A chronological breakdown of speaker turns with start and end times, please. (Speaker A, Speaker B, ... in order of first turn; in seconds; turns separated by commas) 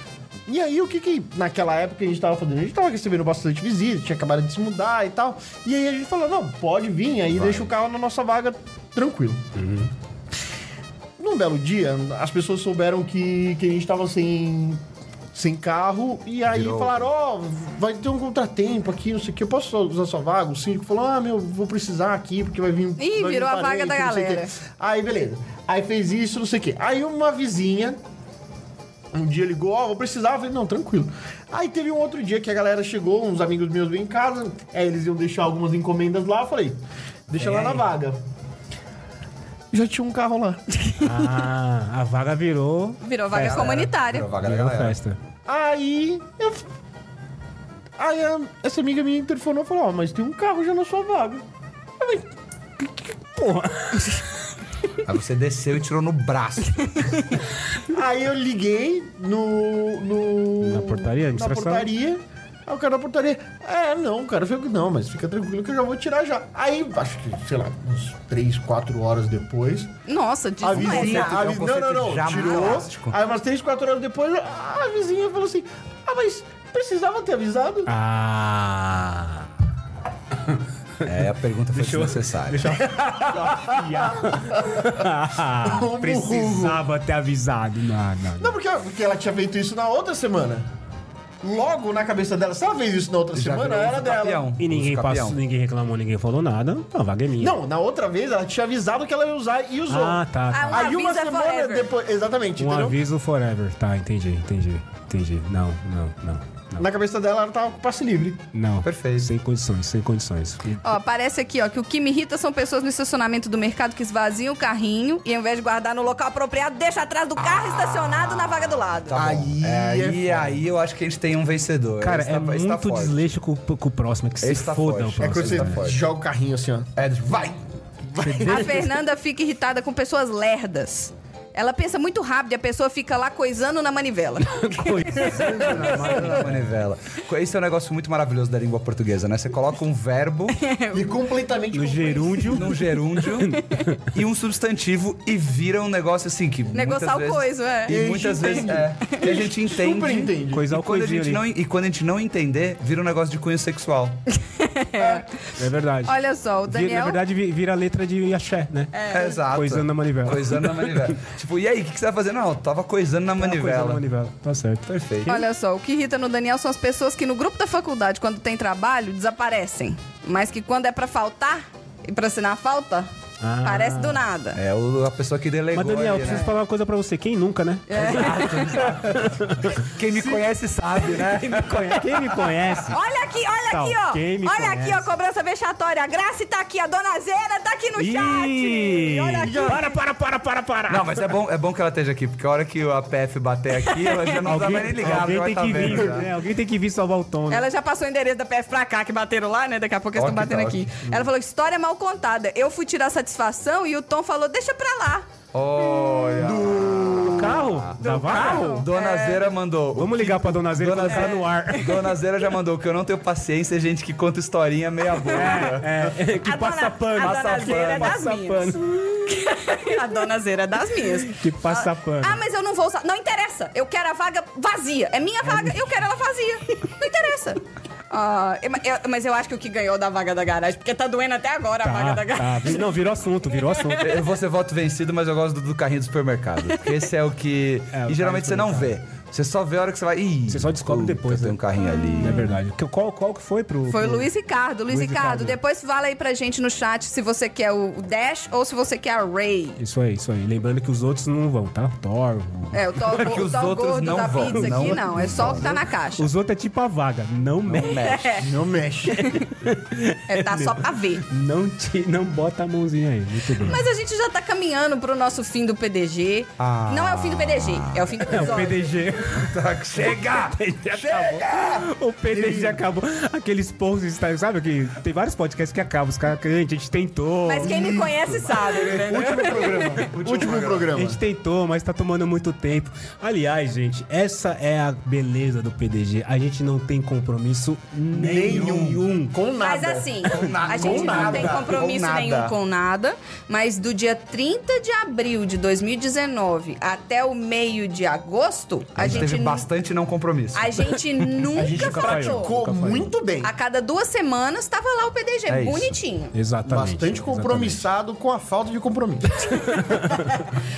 Speaker A: 0.5-9.4, Speaker B: 7.3-7.7, Speaker C: 9.6-9.9, Speaker A: 11.2-14.8, Speaker A: 15.3-28.0, Speaker B: 16.5-17.1, Speaker D: 23.0-24.5, Speaker A: 29.1-38.2, Speaker C: 37.3-37.9, Speaker A: 39.7-41.3, Speaker C: 41.0-45.2, Speaker D: 43.0-44.3, Speaker B: 43.4-45.0, Speaker A: 45.5-46.7, Speaker A: 48.0-51.4, Speaker C: 53.3-54.3, Speaker B: 55.0-57.3, Speaker A: 57.9-69.9, Speaker C: 60.6-61.9, Speaker D: 70.1-71.5, Speaker A: 70.6-77.9, Speaker B: 70.7-73.2, Speaker C: 77.9-79.5, Speaker C: 80.5-81.1, Speaker B: 81.0-82.8, Speaker C: 81.7-88.6, Speaker A: 82.7-85.0, Speaker A: 85.6-86.8, Speaker A: 88.4-90.7, Speaker A: 91.4-94.5, Speaker B: 93.3-95.4, Speaker C: 94.6-97.6, Speaker A: 97.4-103.0, Speaker C: 99.9-100.9, Speaker D: 100.5-101.9, Speaker C: 102.6-106.9, Speaker A: 106.8-108.4, Speaker C: 108.5-110.9, Speaker B: 108.8-109.3, Speaker D: 110.8-119.2, Speaker B: 119.1-123.2, Speaker A: 119.1-120.6, Speaker C: 122.0-125.8, Speaker B: 124.4-126.0, Speaker A: 125.2-126.9, Speaker B: 127.0-127.6, Speaker A: 128.1-128.7, Speaker C: 128.2-128.9, Speaker D: 128.4-135.3, Speaker C: 134.4-136.7, Speaker A: 135.2-136.5, Speaker B: 135.3-140.6, Speaker D: 140.6-141.2, Speaker A: 140.9-142.6, Speaker C: 141.7-142.8, Speaker B: 142.5-154.2, Speaker C: 143.4-144.0, Speaker D: 146.7-148.0, Speaker A: 147.9-150.7, Speaker C: 150.5-151.4, Speaker D: 154.4-155.4, Speaker C: 155.6-156.2, Speaker D: 156.1-157.2, Speaker C: 156.7-158.9, Speaker D: 158.9-159.4, Speaker B: 159.1-164.0, Speaker C: 159.5-161.2, Speaker C: 163.4-165.4, Speaker B: 165.0-165.4, Speaker D: 165.3-173.1, Speaker C: 173.4-174.2, Speaker D: 173.6-174.6, Speaker B: 174.6-176.5, Speaker C: 175.7-179.8, Speaker D: 177.9-178.9, Speaker B: 177.9-182.2, Speaker A: 180.1-180.4, Speaker C: 181.4-183.0, Speaker D: 182.9-189.9, Speaker C: 183.7-185.1, Speaker C: 188.0-191.3, Speaker A: 189.4-189.8, Speaker B: 190.9-196.3, Speaker D: 193.8-194.7, Speaker C: 194.4-197.7, Speaker A: 195.8-196.1, Speaker D: 197.5-205.3, Speaker B: 200.2-200.8, Speaker B: 205.5-215.9, Speaker A: 206.4-207.6, Speaker C: 207.3-208.9, Speaker D: 208.0-209.5, Speaker C: 209.9-212.0, Speaker D: 211.1-212.1, Speaker D: 215.2-215.8, Speaker C: 215.3-219.9, Speaker D: 216.4-234.2, Speaker B: 217.2-218.2, Speaker C: 221.2-222.4, Speaker C: 225.4-225.9, Speaker C: 231.8-234.1, Speaker B: 234.0-242.5, Speaker C: 237.9-238.9, Speaker C: 240.5-241.6, Speaker D: 241.8-242.5, Speaker C: 242.2-244.3, Speaker D: 243.9-249.8, Speaker C: 244.9-245.6, Speaker C: 249.8-253.2, Speaker D: 252.7-256.3, Speaker B: 253.1-255.8, Speaker C: 254.5-258.1, Speaker B: 257.6-258.5, Speaker D: 257.9-258.5, Speaker A: 258.4-259.3, Speaker D: 259.1-259.5, Speaker C: 259.1-263.8, Speaker D: 260.3-261.2, Speaker D: 263.6-268.9, Speaker B: 266.6-268.7, Speaker C: 268.2-277.9, Speaker B: 269.3-271.9, Speaker A: 272.3-272.8, Speaker D: 277.5-280.1, Speaker A: 277.6-281.2, Speaker B: 278.5-279.1, Speaker C: 279.1-279.6, Speaker B: 279.9-280.9, Speaker C: 280.9-289.4, Speaker A: 288.1-291.8, Speaker B: 288.1-288.9, Speaker D: 289.6-299.7, Speaker B: 290.3-292.6, Speaker B: 298.9-301.4, Speaker D: 300.6-302.5, Speaker A: 301.5-303.5, Speaker C: 301.6-303.1, Speaker D: 303.4-306.3, Speaker B: 305.5-305.9, Speaker C: 306.3-307.9, Speaker A: 306.6-309.5, Speaker D: 309.6-310.4, Speaker C: 309.6-310.2